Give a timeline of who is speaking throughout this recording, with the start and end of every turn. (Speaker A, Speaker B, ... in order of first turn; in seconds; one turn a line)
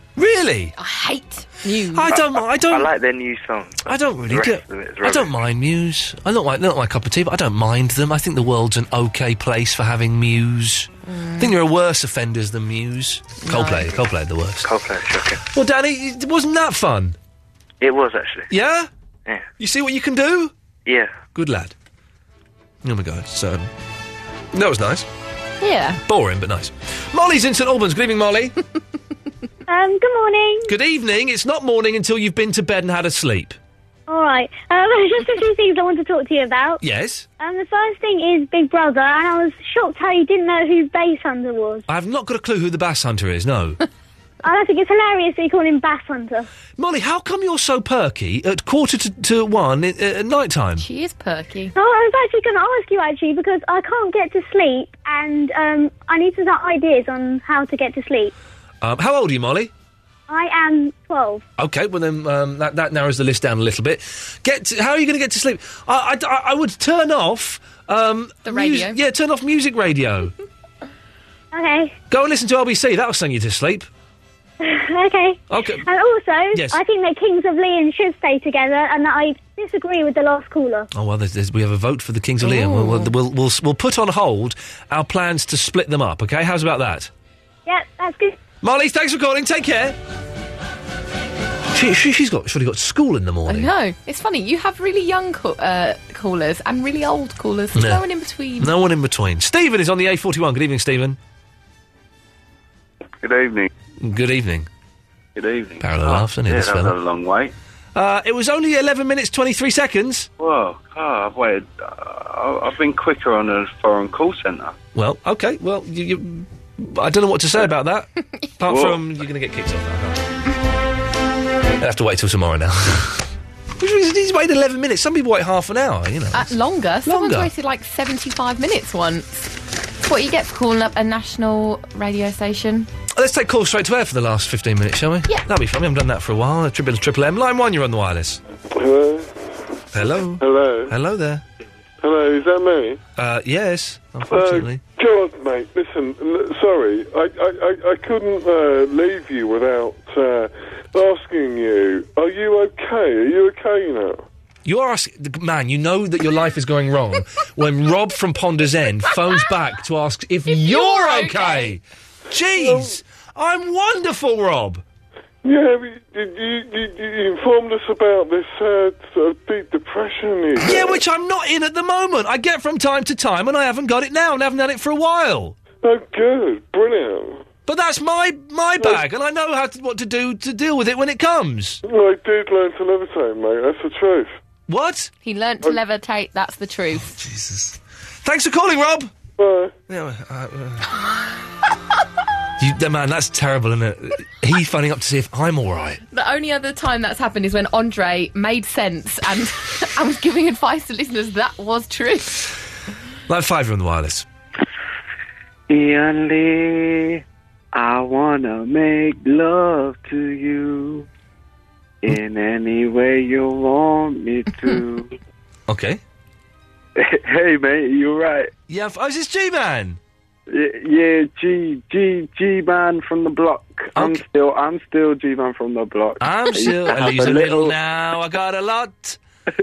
Speaker A: 0.1-0.7
Speaker B: 0.8-2.2
Speaker A: 1.9-3.0
Speaker C: 2.2-5.4
Speaker A: 3.9-14.7
Speaker B: 11.1-11.5
Speaker B: 13.4-13.9
Speaker C: 14.6-15.4
Speaker A: 15.5-17.1
Speaker C: 17.8-18.5
Speaker A: 18.5-18.9
Speaker A: 19.6-20.5
Speaker C: 20.9-21.1
Speaker A: 21.3-21.7
Speaker A: 22.8-23.7
Speaker A: 24.5-25.1
Speaker B: 25.6-26.0
Speaker A: 26.1-28.6
Speaker D: 29.7-30.7
Speaker A: 30.7-33.6
Speaker D: 34.1-36.8
Speaker A: 36.8-37.2
Speaker D: 37.4-41.8
Speaker A: 41.9-43.8
Speaker D: 44.4-46.5
Speaker A: 46.8-50.9
Speaker B: 50.8-51.7
Speaker D: 51.8-58.3
Speaker A: 58.8-59.7
Speaker D: 60.3-61.4
Speaker A: 61.6-70.3
Speaker B: 68.4-69.0
Speaker D: 71.5-71.9
Speaker A: 72.1-73.9
Speaker D: 74.6-80.9
Speaker A: 75.5-75.8
Speaker A: 76.5-76.8
Speaker A: 80.9-87.1
Speaker B: 82.4-83.1
Speaker D: 87.7-88.3
Speaker A: 88.6-90.0
Speaker A: 91.7-93.7
Speaker B: 93.5-98.7
Speaker A: 97.7-98.0
Speaker A: 98.6-101.2
Speaker E: 103.2-103.7
Speaker A: 104.0-104.7
Speaker E: 105.4-107.5
Speaker A: 105.8-107.0
Speaker A: 107.9-110.3
Speaker E: 110.4-114.7
Speaker A: 114.9-120.3
Speaker A: 121.8-126.5
Speaker B: 126.3-129.5
Speaker A: 127.0-127.5
Speaker B: 130.0-132.9
Speaker A: 133.1-138.4
Speaker F: 138.7-139.3
Speaker A: 139.9-141.4
Speaker F: 140.4-140.9
Speaker F: 142.0-143.0
Speaker A: 143.2-144.8
Speaker F: 144.3-154.2
Speaker A: 154.7-164.8
Speaker B: 160.5-161.7
Speaker F: 162.6-163.0
Speaker F: 165.4-171.0
Speaker A: 170.6-175.6
Speaker F: 175.8-177.4
Speaker A: 177.7-181.8
Speaker F: 181.8-184.4
Speaker A: 184.7-185.1
Speaker B: 185.2-187.1
Speaker A: 187.1-189.1
Speaker F: 189.4-189.7
Speaker A: 189.9-190.9
Speaker A: 192.6-196.0
Speaker B: 196.1-202.5
Speaker A: 203.3-204.3
Speaker G: 205.7-207.2
Speaker G: 207.7-211.1
Speaker G: 212.0-215.1
Speaker A: 215.7-216.0
Speaker G: 216.9-218.5
Speaker A: 218.7-220.0
Speaker G: 220.5-227.8
Speaker A: 223.9-224.2
Speaker A: 226.2-229.2